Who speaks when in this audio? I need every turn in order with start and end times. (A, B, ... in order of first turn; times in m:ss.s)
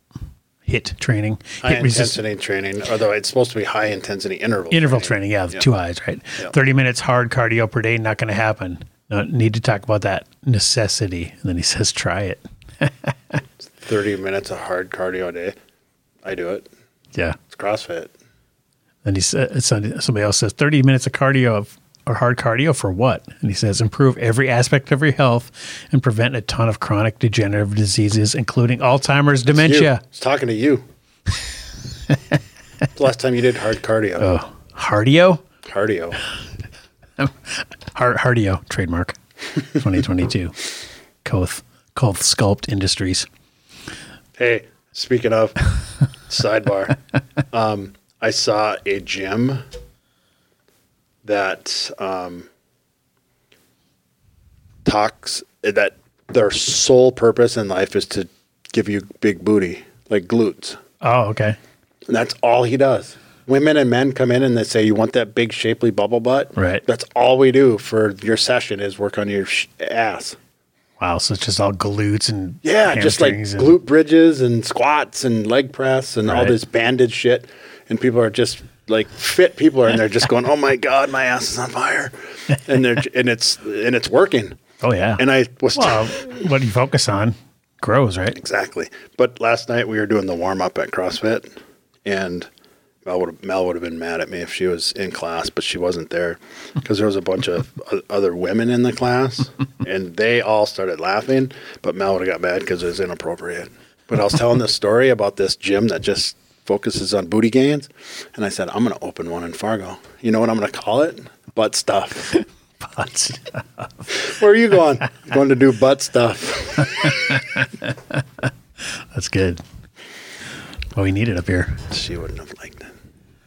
0:00.6-0:02.2 A
0:01.6-0:05.6 B
0:04.7-0:13.1 A
0:13.8-0:15.6 B
0:16.2-0:16.7 B
0:17.5-0:18.1 B
0:19.0-0:30.0 A
0:29.5-0:30.8 B
0:32.9-0:34.4 B
0:34.2-0:35.4 A
0:35.6-0:36.2 B
0:37.2-0:40.7 A
0:41.2-0:43.3 A
0:44.4-0:45.7 B
0:46.3-0:47.0 B
0:47.5-0:49.6 B
0:51.2-0:52.5 B
0:54.8-1:00.8 B
1:01.0-1:01.6 A
1:02.1-1:10.4 B
1:06.6-1:06.8 A
1:11.0-1:13.8 A
1:12.6-1:24.6 B
1:16.3-1:16.6 A
1:24.8-1:25.2 A
1:25.2-1:26.3 B
1:25.7-1:28.4 A
1:28.4-1:31.5 B
1:32.0-1:32.5 B
1:33.0-1:52.4 B
1:52.8-1:53.8 A
1:54.1-1:57.2 B
1:57.3-1:57.6 A
1:59.1-1:59.6 A
2:00.9-2:01.9 A
2:01.9-2:02.9 B